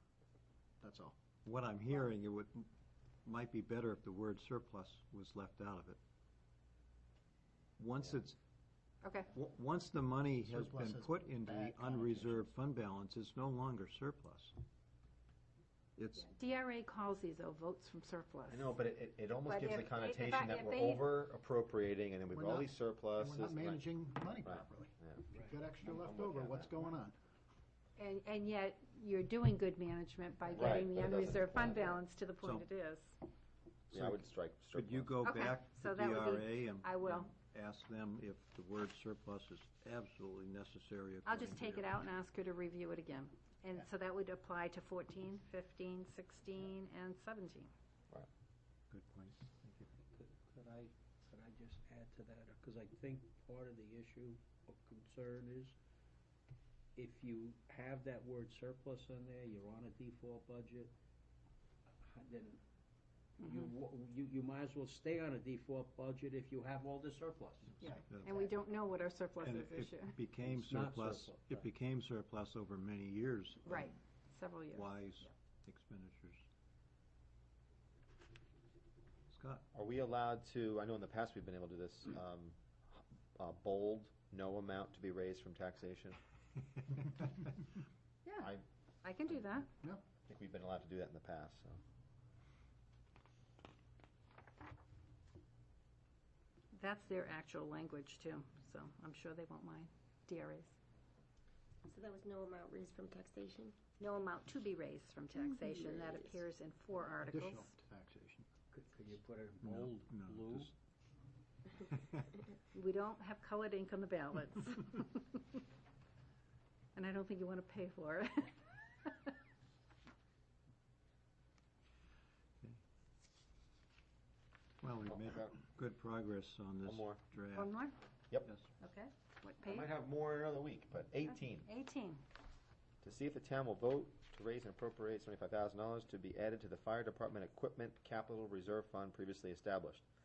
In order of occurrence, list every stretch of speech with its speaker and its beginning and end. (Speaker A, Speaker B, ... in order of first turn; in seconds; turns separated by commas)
Speaker A: 0.8-1.2, Speaker B: 1.4-2.7, Speaker B: 3.2-6.0, Speaker B: 7.8-8.4, Speaker C: 9.0-9.3, Speaker B: 9.3-14.5, Speaker A: 10.4-12.5, Speaker B: 15.9-16.3, Speaker C: 16.2-18.7, Speaker D: 18.5-23.9, Speaker C: 19.4-21.0, Speaker A: 22.3-27.1, Speaker D: 24.4-25.2, Speaker D: 25.8-26.8, Speaker C: 28.0-33.2, Speaker D: 30.5-31.8, Speaker B: 32.4-32.7, Speaker B: 33.9-41.9, Speaker D: 33.9-35.2, Speaker C: 35.2-37.3, Speaker C: 41.2-47.7, Speaker B: 48.9-49.9, Speaker E: 50.1-55.7, Speaker E: 57.0-60.9, Speaker E: 62.0-62.6, Speaker E: 63.4-67.9, Speaker C: 63.4-63.6, Speaker C: 67.8-70.2, Speaker B: 68.1-68.4, Speaker B: 69.4-73.9, Speaker E: 70.4-71.7, Speaker C: 73.7-75.2, Speaker B: 74.7-76.4, Speaker B: 79.3-79.7, Speaker D: 79.7-86.2, Speaker C: 88.2-89.7, Speaker D: 88.4-88.6, Speaker D: 90.3-91.8, Speaker C: 96.7-100.7, Speaker F: 101.8-103.8, Speaker C: 104.0-107.7, Speaker F: 105.5-106.3, Speaker A: 107.2-108.5, Speaker E: 108.7-110.7, Speaker B: 109.6-110.7, Speaker B: 111.9-112.3, Speaker C: 112.7-115.6, Speaker C: 116.9-119.3, Speaker B: 124.8-127.8, Speaker D: 125.1-125.5, Speaker D: 126.8-127.2, Speaker C: 127.5-127.9, Speaker C: 128.8-129.9, Speaker D: 129.6-131.7, Speaker C: 131.3-132.2, Speaker D: 133.0-140.0